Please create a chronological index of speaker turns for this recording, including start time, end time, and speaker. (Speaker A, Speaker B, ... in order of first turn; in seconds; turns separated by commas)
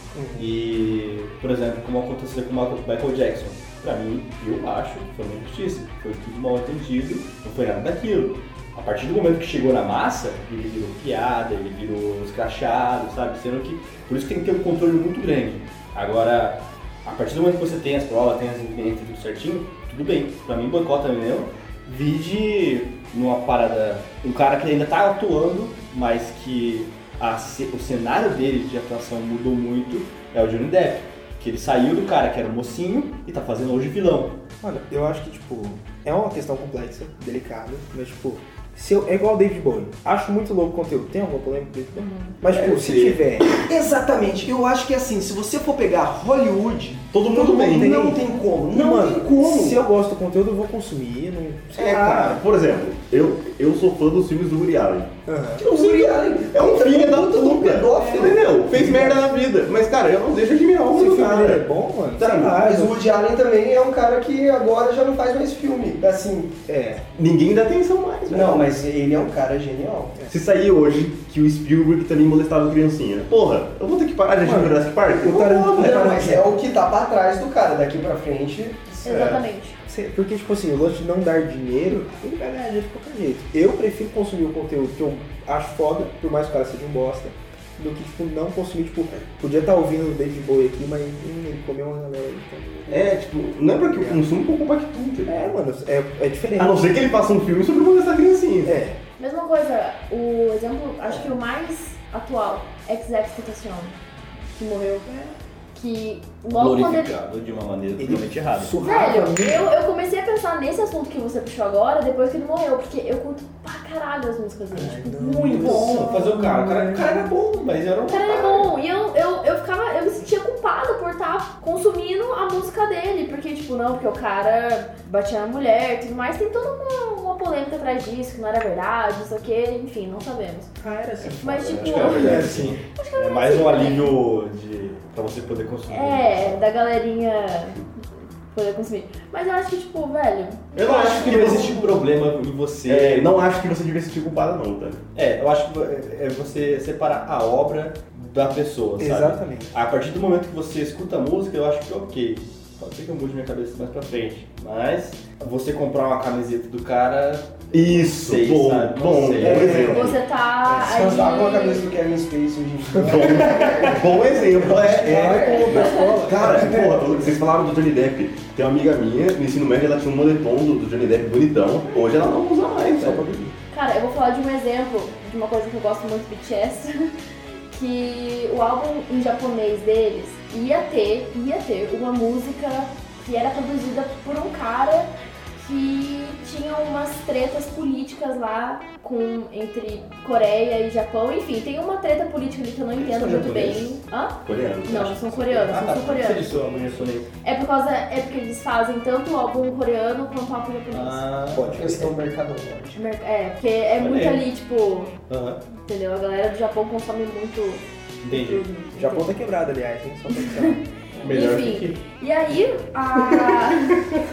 Speaker A: 0.1-0.5, Speaker B: 0.3-34.4, Speaker A: 34.6-43.5, Speaker C: 42.0-42.3, Speaker D: 42.6-49.8, Speaker E: 47.1-48.0, Speaker A: 47.7-52.4, Speaker E: 51.8-55.1, Speaker A: 55.3-55.6, Speaker D: 55.6-59.2, Speaker E: 55.6-61.6, Speaker A: 60.9-63.0, Speaker D: 62.2-66.5, Speaker A: 66.7-67.0, Speaker E: 67.2-68.7, Speaker D: 68.3-70.2, Speaker E: 70.3-76.1, Speaker A: 74.4-76.5, Speaker D: 75.4-79.4, Speaker C: 79.0-79.8, Speaker A: 79.9-93.1, Speaker E: 92.9-95.5, Speaker A: 93.9-94.2, Speaker A: 95.3-97.0, Speaker E: 96.6-98.8, Speaker A: 98.6-99.0, Speaker C: 99.2-103.9, Speaker C: 104.5-107.1, Speaker B: 106.5-108.8, Speaker A: 108.0-109.7, Speaker C: 108.8-116.3, Speaker A: 114.7-117.3, Speaker B: 115.5-118.7, Speaker C: 118.1-130.7, Speaker A: 130.8-132.8, Speaker C: 131.4-132.4, Speaker B: 131.8-136.6, Speaker E: 131.8-132.6, Speaker C: 132.9-134.2, Speaker C: 135.9-137.8, Speaker C: 138.5-141.9, Speaker B: 140.7-143.3, Speaker E: 140.8-141.9, Speaker E: 142.9-145.0, Speaker B: 145.1-159.8, Speaker A: 149.0-149.7, Speaker E: 157.7-160.2, Speaker D: 159.4-160.1, Speaker A: 159.5-159.9, Speaker C: 159.8-161.8, Speaker D: 160.7-167.3, Speaker E: 163.0-173.3, Speaker A: 165.0-167.1, Speaker C: 165.6-166.2, Speaker A: 172.9-173.5, Speaker C: 173.7-177.1, Speaker C: 177.7-196.6, Speaker B: 193.1-193.8, Speaker E: 194.4-195.3, Speaker B: 195.4-197.3, Speaker C: 197.4-201.2, Speaker B: 200.9-201.7, Speaker A: 201.5-202.1, Speaker D: 201.7-203.0, Speaker C: 202.9-205.1, Speaker B: 204.0-204.4, Speaker B: 205.3-205.6, Speaker C: 205.8-209.3, Speaker B: 208.2-208.6, Speaker A: 208.9-210.8, Speaker C: 210.3-213.9, Speaker B: 211.2-212.0, Speaker B: 213.3-214.2